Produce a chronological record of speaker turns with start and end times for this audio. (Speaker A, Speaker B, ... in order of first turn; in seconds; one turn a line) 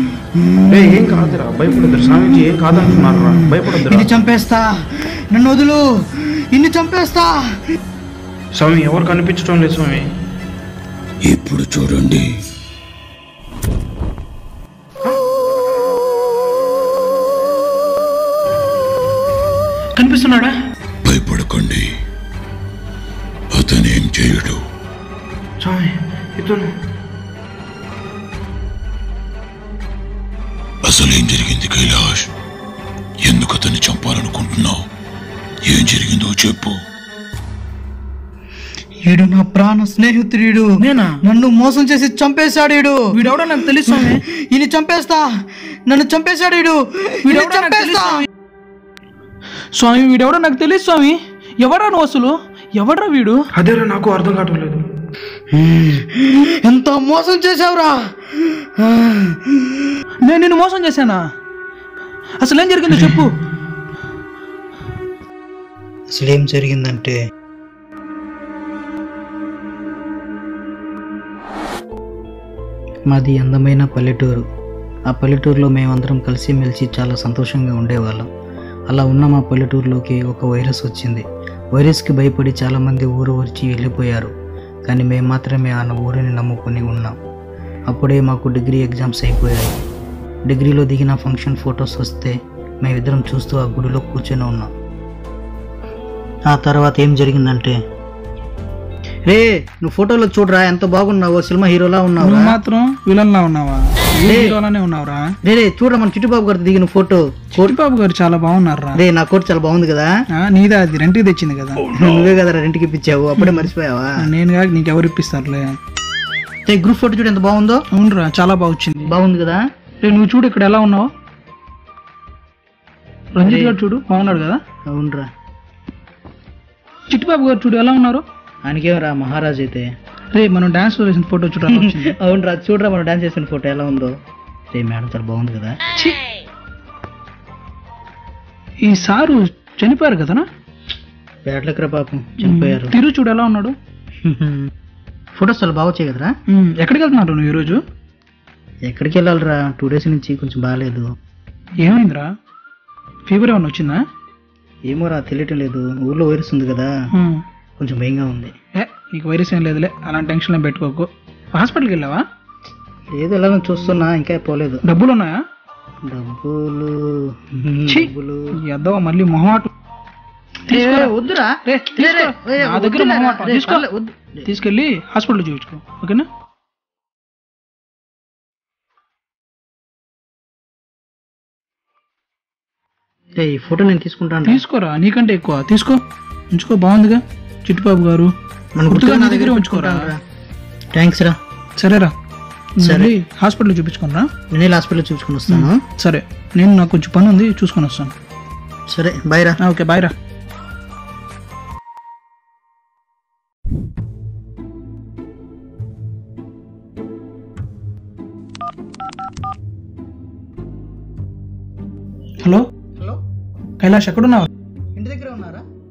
Speaker A: 0.4-1.0
Speaker B: 0.7-4.1
Speaker A: 3.9-7.4
Speaker B: 8.6-10.1
Speaker C: 11.2-12.3
Speaker D: 20.0-20.5
Speaker C: 21.0-21.9
Speaker C: 23.5-24.6
Speaker B: 25.6-26.7
Speaker C: 30.8-32.3
Speaker C: 33.2-34.8
Speaker C: 35.6-36.8
Speaker A: 39.0-43.1
Speaker D: 40.8-41.2
Speaker D: 43.1-44.2
Speaker A: 43.8-48.2
Speaker D: 47.2-48.2
Speaker D: 49.7-53.4
Speaker B: 53.5-54.8
Speaker A: 55.5-59.9
Speaker D: 60.2-61.2
Speaker D: 62.4-63.3
Speaker A: 66.1-67.2
Speaker A: 73.1-74.5
Speaker A: 75.1-78.3
Speaker A: 78.9-84.3
Speaker A: 84.9-87.2
Speaker A: 87.9-89.7
Speaker A: 90.5-94.7
Speaker A: 96.5-97.8
Speaker A: 99.3-102.5
Speaker D: 102.2-105.2
Speaker A: 104.2-104.6
Speaker A: 105.4-107.8
Speaker D: 107.6-109.0
Speaker A: 109.0-110.1
Speaker D: 110.3-111.9
Speaker A: 111.9-114.2
Speaker D: 113.4-113.7
Speaker D: 114.2-115.7
Speaker A: 116.7-117.8
Speaker D: 117.9-119.1
Speaker A: 119.1-119.7
Speaker D: 120.0-121.1
Speaker D: 123.4-124.6
Speaker A: 123.4-123.7
Speaker A: 124.9-125.3
Speaker D: 127.1-128.2
Speaker A: 128.6-129.9
Speaker D: 130.3-132.1
Speaker A: 131.7-134.2
Speaker A: 134.7-135.8
Speaker D: 138.8-140.5
Speaker A: 141.4-142.9
Speaker D: 142.4-143.8
Speaker A: 144.2-144.7
Speaker A: 145.3-146.3
Speaker D: 146.5-147.8
Speaker A: 148.8-151.1
Speaker D: 151.8-152.3
Speaker D: 153.3-154.0
Speaker A: 154.9-156.9
Speaker D: 157.1-157.4
Speaker A: 157.8-158.5
Speaker D: 158.8-162.2
Speaker A: 163.1-164.8
Speaker D: 164.8-165.4
Speaker A: 166.1-168.5
Speaker D: 167.9-169.7
Speaker A: 170.7-174.4
Speaker D: 170.7-171.1
Speaker D: 171.7-173.8
Speaker D: 174.4-176.3
Speaker A: 183.3-184.6
Speaker D: 184.5-186.0
Speaker D: 186.5-188.3
Speaker A: 188.8-190.2
Speaker D: 188.9-190.0
Speaker A: 190.9-191.4
Speaker D: 191.8-192.1
Speaker D: 192.8-194.3
Speaker A: 192.8-193.1
Speaker A: 194.5-195.8
Speaker D: 195.5-198.1
Speaker A: 198.9-199.6
Speaker D: 199.6-200.1
Speaker D: 213.8-214.5
Speaker A: 214.9-215.6